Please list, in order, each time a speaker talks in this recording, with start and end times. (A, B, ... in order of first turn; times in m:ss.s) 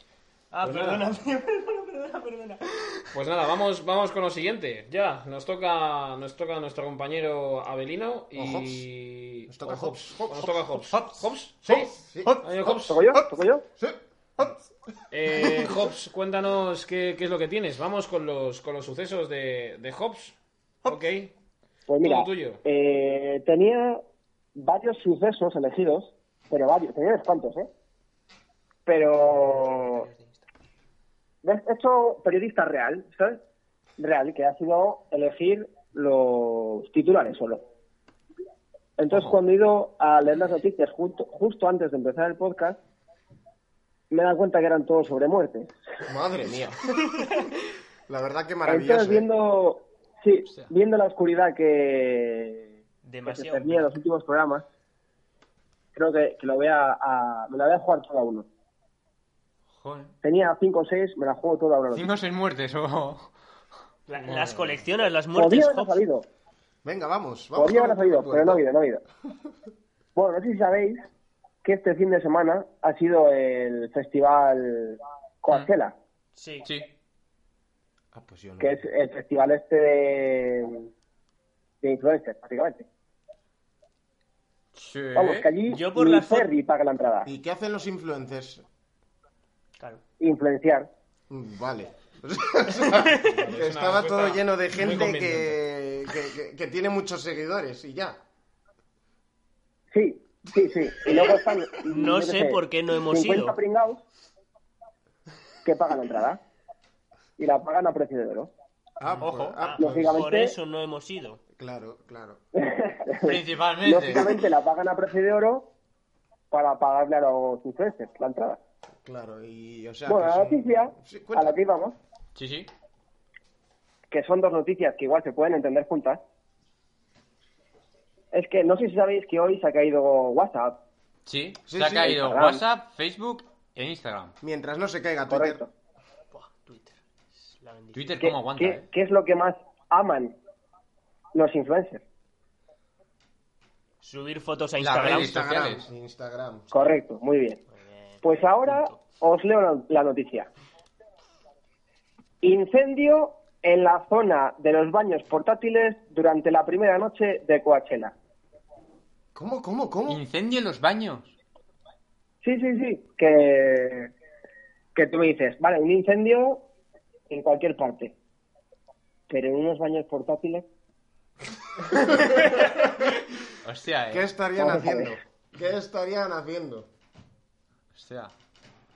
0:00.5-0:03.0 A
0:00.6-0:01.1 B
0:03.1-0:13.0 B
0:08.4-0:08.9 C
0:09.5-0:11.1 C
0:11.6-0:12.8 C
0:12.7-0:13.6 D
0:13.8-0:14.6 C
0:15.1-0:21.3 B
0:15.4-0:15.7 C
0:21.9-0:24.0 D
0:22.0-0:22.6 B
0:24.6-0:27.7 D
0:28.9-0:30.1 D
0:29.7-0:30.2 A
0:31.4-0:33.4 D
0:34.0-0:37.6 D
0:39.0-0:42.8 D
0:44.1-0:45.7 D
0:46.1-0:47.1 C
0:48.1-0:49.3 C
0:48.7-0:52.7 D
0:53.0-0:53.9 A
0:53.3-0:54.6 D
0:56.0-0:58.5 D
0:59.7-1:00.1 E
1:00.2-1:02.1 D
1:01.9-1:03.3 E
1:04.1-1:06.0 A
1:05.3-1:06.3 D
1:06.8-1:08.6 C
1:07.6-1:09.0 D
1:10.2-1:11.1 D
1:11.6-1:16.0 D
1:16.4-1:16.7 A
1:16.6-1:16.9 E
1:18.1-1:18.8 C
1:18.6-1:20.9 D
1:21.8-1:22.9 D
1:24.7-1:25.5 E
1:25.2-1:27.3 D
1:25.7-1:26.5 A
1:27.2-1:28.6 C
1:30.2-1:30.9 D
1:31.3-1:38.2 C
1:33.2-1:35.6 B
1:39.9-1:44.0 D
1:41.1-1:43.6 A
1:45.6-1:46.4 D
1:47.4-1:48.5 D
1:49.0-1:50.3 C
1:49.1-1:49.6 E
1:49.6-1:51.4 A
1:49.8-1:50.5 D
1:51.6-1:52.4 C
1:52.6-1:55.7 D
1:53.2-1:54.4 E
1:56.5-1:58.6 D
1:59.0-2:01.6 C
2:00.1-2:02.0 D
2:02.4-2:02.7 E
2:04.1-2:06.2 D
2:08.3-2:10.8 D
2:11.3-2:14.4 E
2:11.7-2:12.2 C
2:12.0-2:12.6 D
2:14.4-2:15.6 C
2:15.3-2:15.7 D
2:16.3-2:18.2 A
2:17.9-2:18.9 E
2:18.2-2:20.4 D
2:21.3-2:22.0 D
2:24.0-2:25.4 A
2:24.8-2:25.9 E
2:25.0-2:26.7 C
2:26.7-2:27.6 D
2:27.8-2:29.0 A
2:28.2-2:30.5 D
2:32.4-2:38.1 D
2:39.4-2:40.2 C
2:40.1-2:41.3 E
2:42.4-2:44.1 D
2:45.0-2:46.6 D
2:47.3-2:48.1 D
2:49.3-2:50.6 D
2:53.6-2:54.3 E
2:54.1-2:56.9 C
2:54.6-2:55.2 D
2:57.9-2:58.3 E